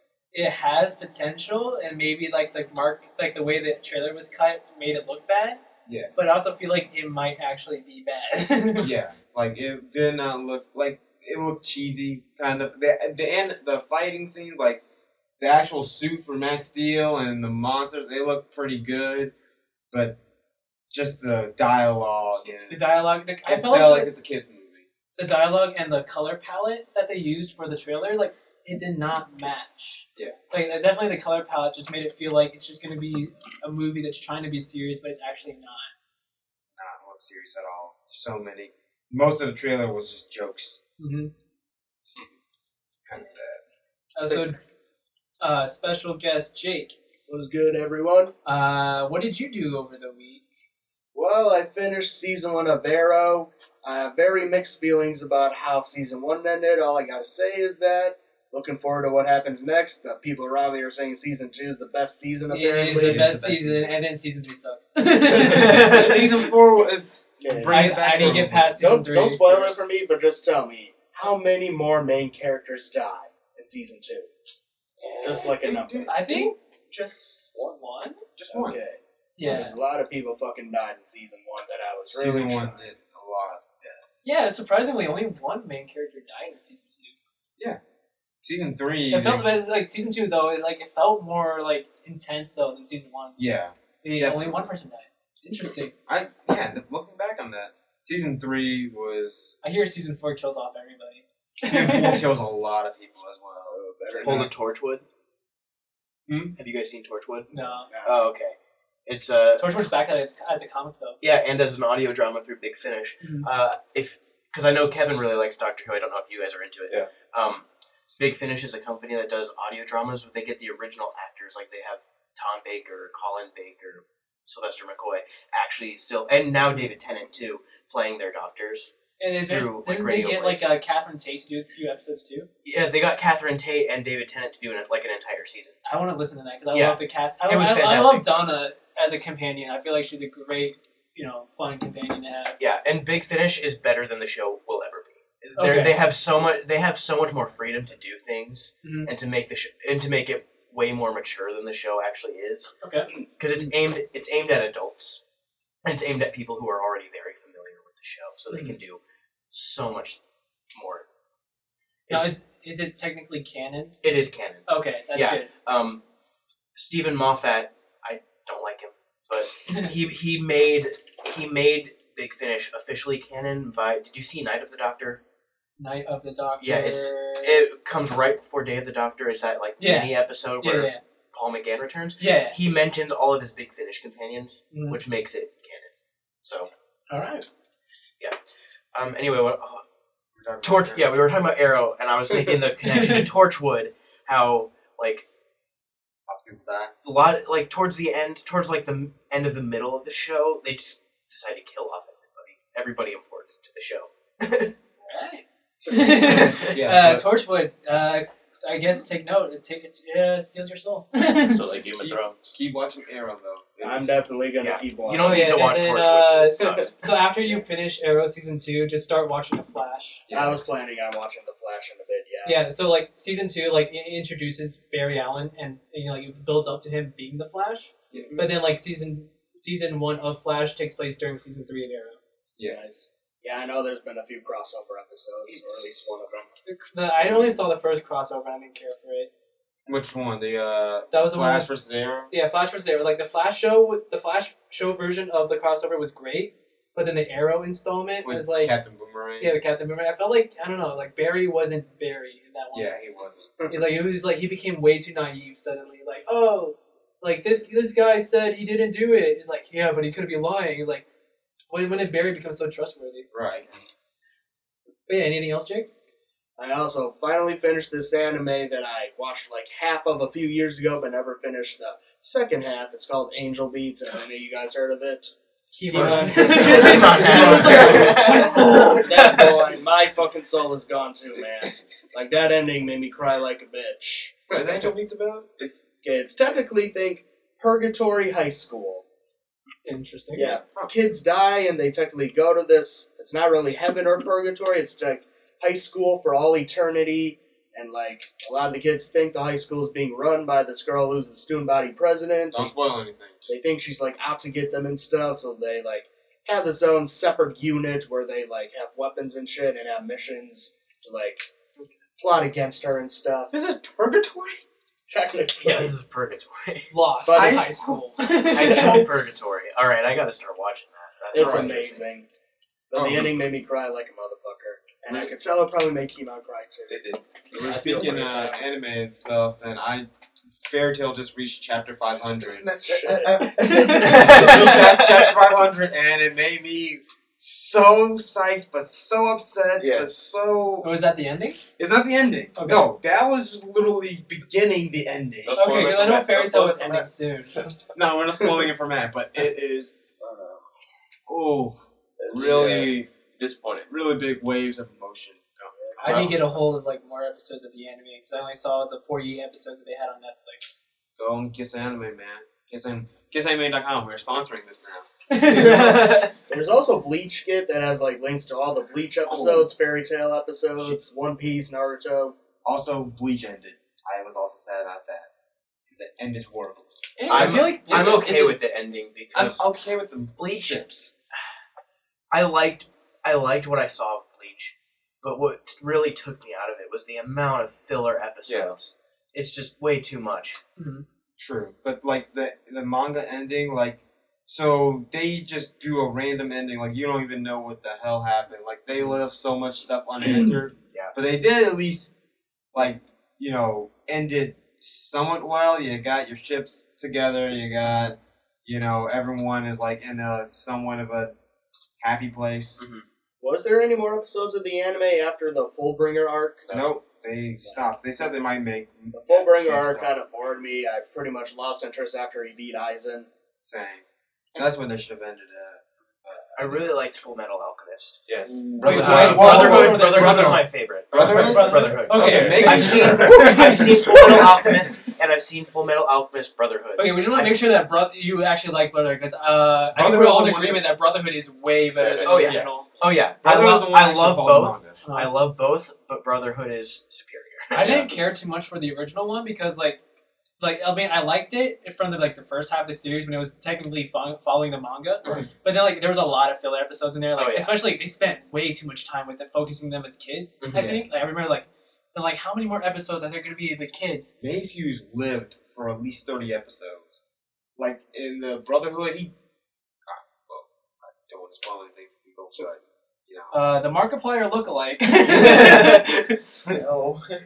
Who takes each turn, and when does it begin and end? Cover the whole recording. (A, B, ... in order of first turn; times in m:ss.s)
0:00.3-0:05.6 A
0:05.8-0:06.1 B
0:06.2-0:08.9 A
0:08.8-0:14.8 B
0:15.4-0:19.3 B
0:19.9-0:20.2 B
0:20.9-0:22.8 B
0:22.7-0:24.1 A
0:23.4-0:24.9 B
0:25.2-0:35.9 A
0:36.8-0:40.8 B
0:41.0-0:41.3 A
0:42.2-0:43.6 B
0:44.1-0:44.6 A
0:45.4-0:47.0 A
0:47.3-0:48.3 C
0:48.4-0:50.4 A
0:51.1-1:03.3 C
1:02.5-1:06.5 A
1:02.8-1:04.0 B
1:05.3-1:08.8 B
1:05.6-1:05.9 D
1:07.4-1:14.3 C
1:07.7-1:09.8 A
1:15.2-1:16.5 C
1:15.4-1:16.1 B
1:16.1-1:18.2 A
1:18.4-1:18.8 B
1:18.5-1:22.8 C
1:19.4-1:19.7 A
1:22.1-1:24.2 B
1:24.2-1:27.1 A
1:28.4-1:29.5 B
1:29.1-1:33.4 A
1:33.4-1:34.6 B
1:34.0-1:35.9 A
1:36.1-1:39.6 B
1:39.6-1:42.2 A
1:41.6-1:44.5 B
1:43.7-1:44.5 C
1:44.2-1:45.0 D
1:46.3-1:46.5 B
1:46.6-1:47.5 D
1:47.5-1:47.9 A
1:47.9-1:48.2 C
1:48.0-1:48.5 D
1:49.0-1:49.7 D
1:49.6-1:51.2 A
1:51.2-1:57.6 D
1:53.2-1:53.5 A
1:58.2-2:08.9 D
2:09.2-2:12.5 A
2:09.5-2:10.7 D
2:12.6-2:15.8 D
2:15.8-2:22.6 A
2:16.7-2:18.3 D
2:22.6-2:35.2 D
2:25.6-2:26.0 A
2:28.8-2:29.1 A
2:32.8-2:33.1 A
2:35.8-2:39.0 D
2:39.5-2:40.2 D
2:40.7-2:41.0 D
2:42.1-2:42.3 D
2:42.1-2:44.0 A
2:44.0-2:46.0 D
2:44.7-2:45.5 A
2:46.8-2:55.2 D
2:55.8-2:57.6 A
2:56.6-3:05.9 D
2:59.8-3:01.0 A
3:02.2-3:02.6 A
3:04.7-3:05.0 A
3:06.4-3:06.7 D
3:07.1-3:07.4 A
3:08.9-3:09.8 D
3:10.4-3:11.2 B
3:10.6-3:15.2 D
3:12.8-3:13.2 A
3:16.3-3:16.9 B
3:17.0-3:24.7 D
3:25.1-3:31.6 A
3:26.2-3:26.7 D
3:26.7-3:27.2 B
3:31.4-3:32.4 E
3:32.0-3:34.2 B
3:33.8-3:35.5 C
3:34.6-3:37.1 D
3:35.2-3:40.2 A
3:40.3-3:40.6 B
3:40.3-3:42.6 C
3:42.4-3:52.2 A
3:48.1-3:48.4 B
3:52.6-3:56.5 C
3:56.6-3:59.3 A
3:59.8-4:02.3 B
4:01.1-4:01.7 A
4:02.3-4:08.7 A
4:08.2-4:09.6 B
4:09.4-4:12.9 A
4:12.7-4:13.5 B
4:13.7-4:21.0 A
4:21.7-4:23.3 A
4:23.3-4:23.8 B
4:25.1-4:25.9 A
4:26.6-4:35.3 C
4:35.7-4:39.4 A
4:35.9-4:44.9 C
4:35.9-4:39.6 D
4:35.9-4:38.3 B
4:44.5-4:45.7 B
4:46.0-4:49.0 C
4:49.8-4:50.6 A
4:50.3-5:02.7 C
5:02.5-5:03.5 B
5:03.5-5:11.4 C
5:12.2-5:13.5 C
5:13.5-5:14.6 B
5:15.1-5:15.9 C
5:15.6-5:16.9 D
5:16.9-5:19.1 A
5:17.2-5:17.8 C
5:17.3-5:18.1 B
5:18.4-5:22.0 D
5:21.3-5:22.2 C
5:21.4-5:21.7 B
5:22.9-5:27.0 C
5:22.9-5:23.3 B
5:26.9-5:27.2 E
5:27.5-5:30.1 B
5:30.6-5:40.9 B
5:32.4-5:33.5 C
5:33.5-5:34.8 A
5:33.8-5:35.4 D
5:39.8-5:40.4 E
5:40.8-5:41.6 A
5:41.8-5:45.9 B
5:42.6-5:42.9 A
5:45.4-5:47.0 E
5:45.5-5:47.6 A
5:46.5-5:47.0 C
5:47.9-5:50.2 B
5:51.3-5:51.8 B
5:52.2-5:53.9 E
5:52.3-5:53.1 B
5:53.9-5:56.4 B
5:56.0-5:56.4 E
5:56.0-6:00.9 A
6:01.2-6:05.1 B
6:05.3-6:06.2 A
6:05.5-6:06.3 D
6:05.6-6:05.9 C
6:06.5-6:12.3 C
6:12.6-6:15.3 B
6:15.9-6:18.5 B
6:17.2-6:18.6 A
6:17.3-6:19.6 D
6:19.3-6:21.1 B
6:20.4-6:20.9 D
6:22.3-6:30.6 D
6:28.4-6:28.8 E
6:30.8-6:31.0 A
6:31.4-6:42.1 B
6:42.7-6:51.3 B
6:52.0-6:52.8 B
6:52.8-6:53.0 D
6:53.4-6:56.7 C
6:56.7-7:00.1 B
6:59.1-7:03.3 C
7:03.6-7:04.0 B
7:04.5-7:06.7 B
7:06.6-7:08.2 D
7:08.2-7:09.2 E
7:08.5-7:14.4 B
7:08.8-7:10.6 A
7:08.8-7:17.5 D
7:11.1-7:11.6 E
7:11.3-7:13.4 A
7:12.1-7:13.8 E
7:17.0-7:22.9 A
7:19.9-7:20.9 B
7:22.0-7:22.5 E
7:22.2-7:27.9 D
7:22.4-7:22.8 B
7:23.4-7:25.0 B
7:25.0-7:25.3 A
7:27.7-7:30.0 A
7:27.8-7:28.1 B
7:30.6-7:44.3 A
7:37.3-7:37.8 D
7:40.6-7:41.0 B
7:44.4-7:47.2 B
7:47.8-7:49.3 B
7:50.1-7:53.5 B
7:53.5-7:56.4 A